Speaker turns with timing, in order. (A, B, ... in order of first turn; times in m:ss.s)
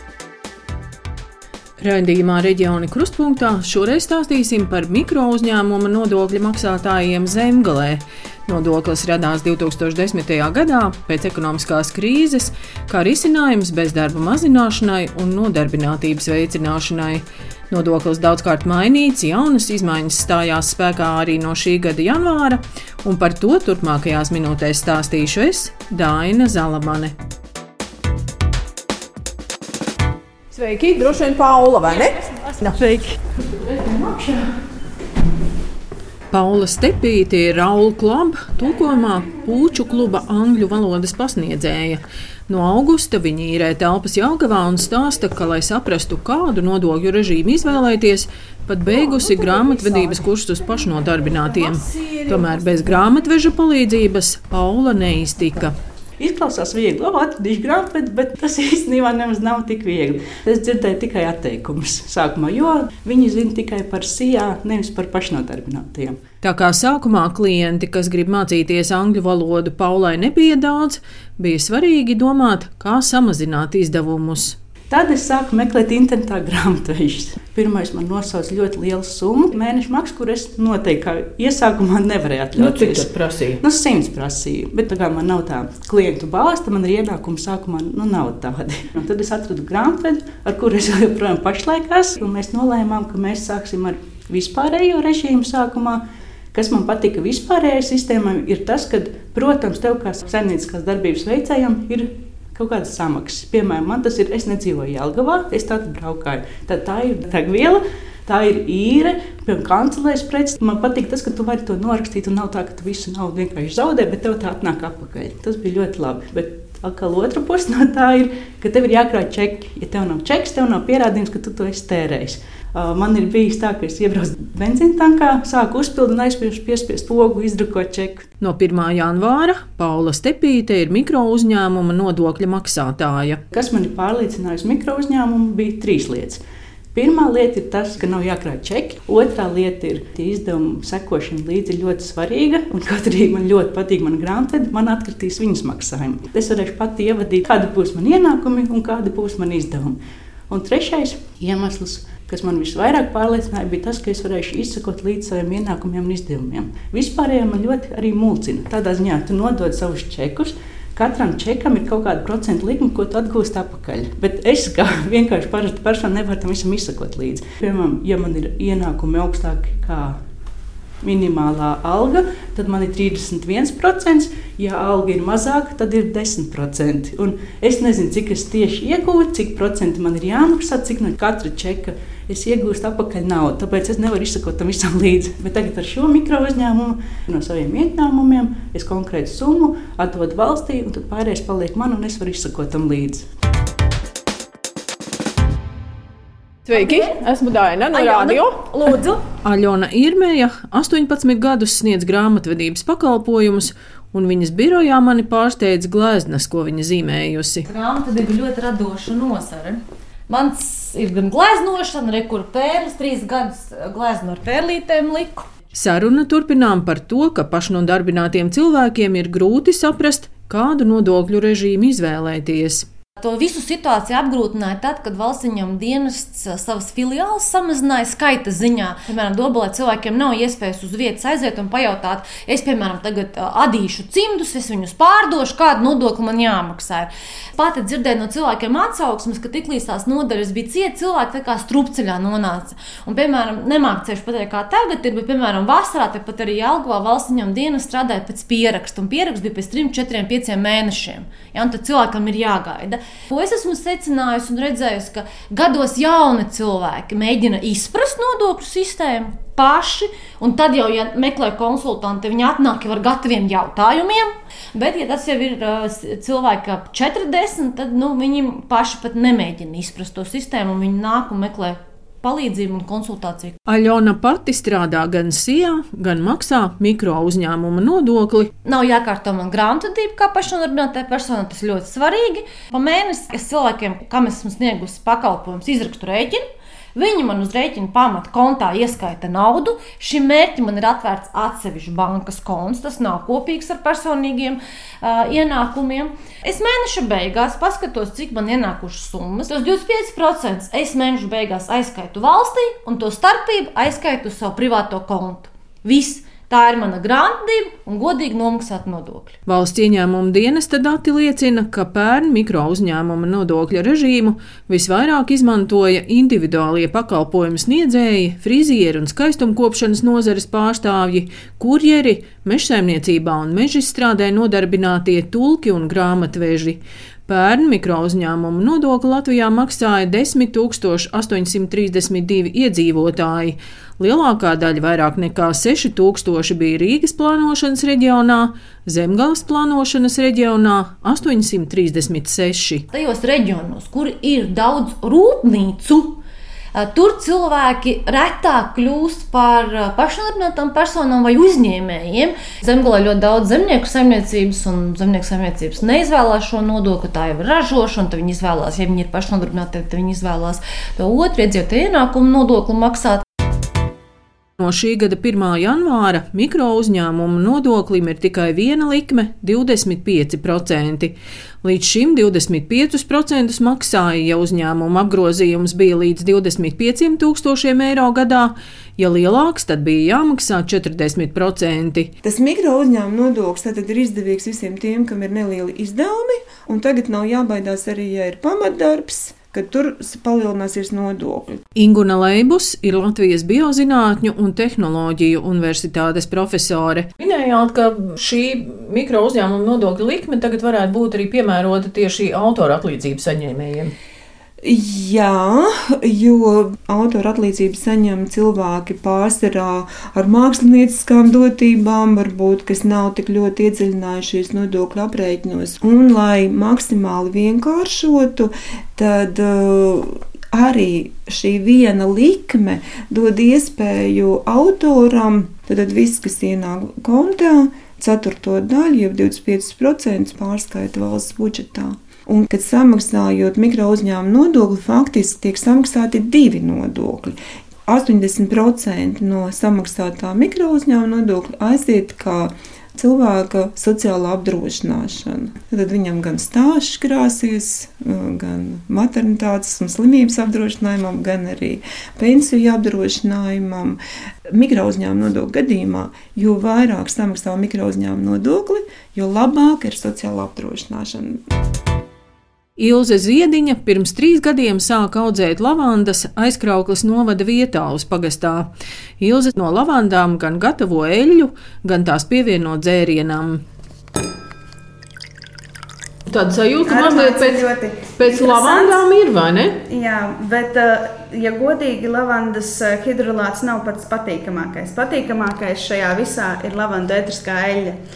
0:01.8-0:27.1 A
0:30.5-0:33.1 A
0:36.3-0:55.7 A
0:56.2-1:06.1 B
1:06.4-1:14.6 A
1:14.9-1:23.0 B
1:22.5-1:23.6 A
1:23.6-1:36.0 B
1:36.5-1:42.0 B
1:42.6-2:08.2 B
2:08.4-2:13.4 A
2:13.5-2:16.4 B
2:17.0-2:29.9 B
2:30.5-2:50.1 B
2:51.0-3:13.2 B
3:16.6-3:27.6 A
3:16.7-3:17.1 C
3:17.9-3:19.2 C
3:27.7-3:35.4 C
3:35.7-3:42.9 A
3:43.2-4:33.6 C
4:33.6-4:38.5 A
4:38.6-4:46.4 C
4:46.9-5:09.3 C
5:09.4-5:42.8 A
5:42.9-5:46.2 C
5:46.7-6:03.2 C
6:04.6-6:22.1 A
6:22.2-6:31.6 D
6:31.7-6:43.9 A
6:44.6-7:17.4 D
7:17.9-7:41.4 D
7:42.8-7:53.6 A
7:56.3-7:59.8 A
7:56.8-7:59.0 E
7:59.9-8:08.0 E